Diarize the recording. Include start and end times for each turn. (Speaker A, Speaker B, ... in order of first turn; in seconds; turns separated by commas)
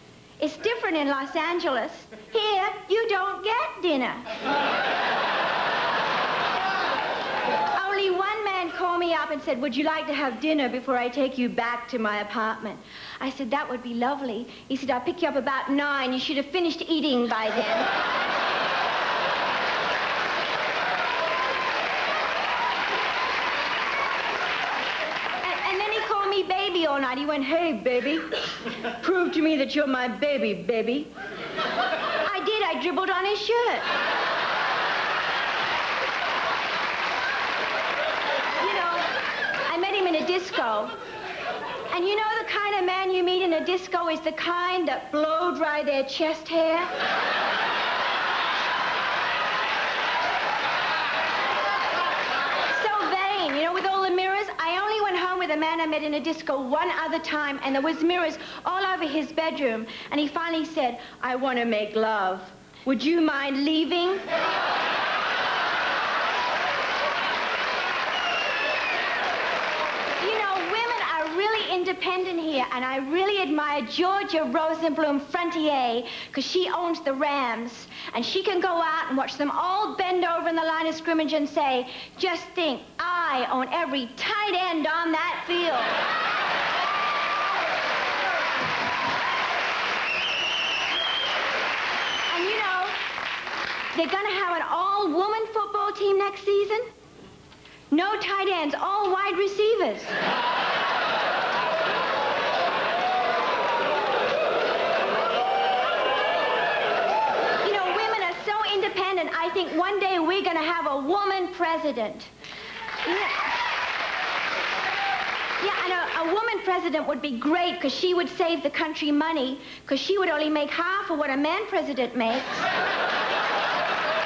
Speaker A: 0.4-4.3, Speaker A: 7.7-17.9, Speaker A: 25.4-28.3, Speaker A: 28.8-31.1, Speaker A: 32.2-33.9, Speaker A: 38.6-39.1, Speaker A: 39.7-40.9, Speaker A: 41.9-46.9, Speaker A: 52.7-64.2, Speaker A: 70.2-86.0, Speaker A: 92.3-93.0, Speaker A: 93.9-96.9, Speaker A: 97.9-100.2, Speaker A: 107.6-112.3, Speaker A: 113.0-113.5, Speaker A: 115.6-122.6